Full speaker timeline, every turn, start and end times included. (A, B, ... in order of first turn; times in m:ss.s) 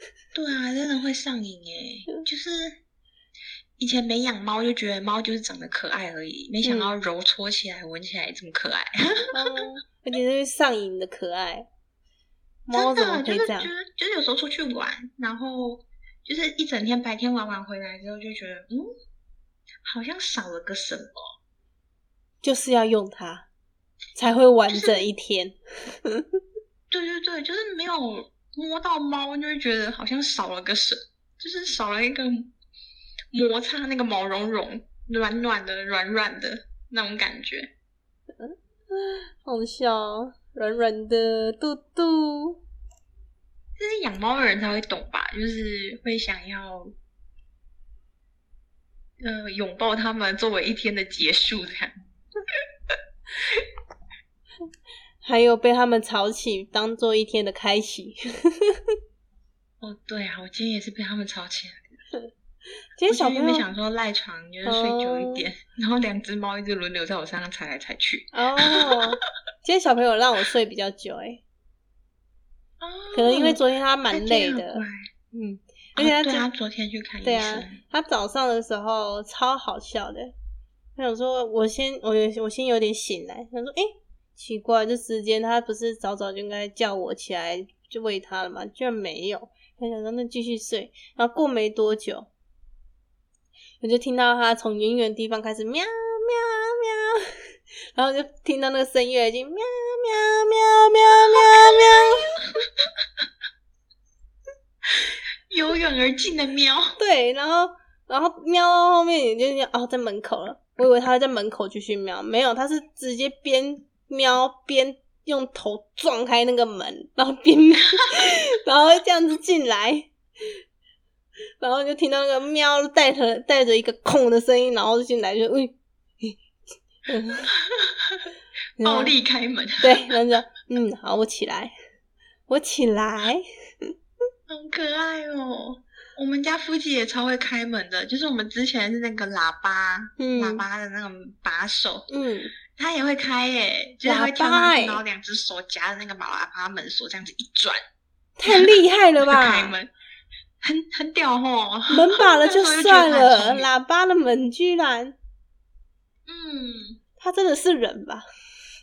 0:00.3-0:02.8 A
0:03.8-0:09.3 A
0:06.6-0:06.9 B
0:09.3-0:11.7 B
0:12.7-0:13.7 B
0:12.7-0:18.9 A
0:19.8-0:21.3 A
0:22.4-0:23.4 B
0:24.2-0:26.2 B
0:24.7-0:25.1 A
0:26.9-0:32.5 A
0:33.3-0:37.7 A
0:38.4-0:42.6 B
0:43.8-0:46.9 A
0:49.2-0:51.9 A
0:53.4-0:53.6 A
0:55.2-0:58.8 B
0:59.8-1:02.0 A
1:03.0-1:03.7 B
1:03.1-1:09.0 A
1:04.6-1:05.5 B
1:08.3-1:11.4 B
1:12.8-1:15.0 A
1:13.1-1:16.5 B
1:16.0-1:17.8 A
1:17.2-1:20.3 B
1:21.0-1:32.3 B
1:33.8-1:37.4 B
1:37.9-1:42.4 B
1:41.0-1:43.2 A
1:44.9-1:47.0 A
1:47.0-2:00.6 B
2:01.6-2:06.4 B
2:07.1-2:07.5 B
2:07.5-2:09.9 A
2:08.8-2:09.1 B
2:09.8-2:11.7 B
2:12.5-2:13.9 B
2:14.5-2:22.1 A
2:20.2-2:20.6 B
2:22.1-2:22.5 B
2:22.7-2:27.8 A
2:24.0-2:25.0 B
2:28.4-2:29.8 B
2:28.5-2:29.9 A
2:30.6-2:33.7 A
2:31.9-2:35.2 B
2:36.3-2:37.0 A
2:37.2-2:38.2 B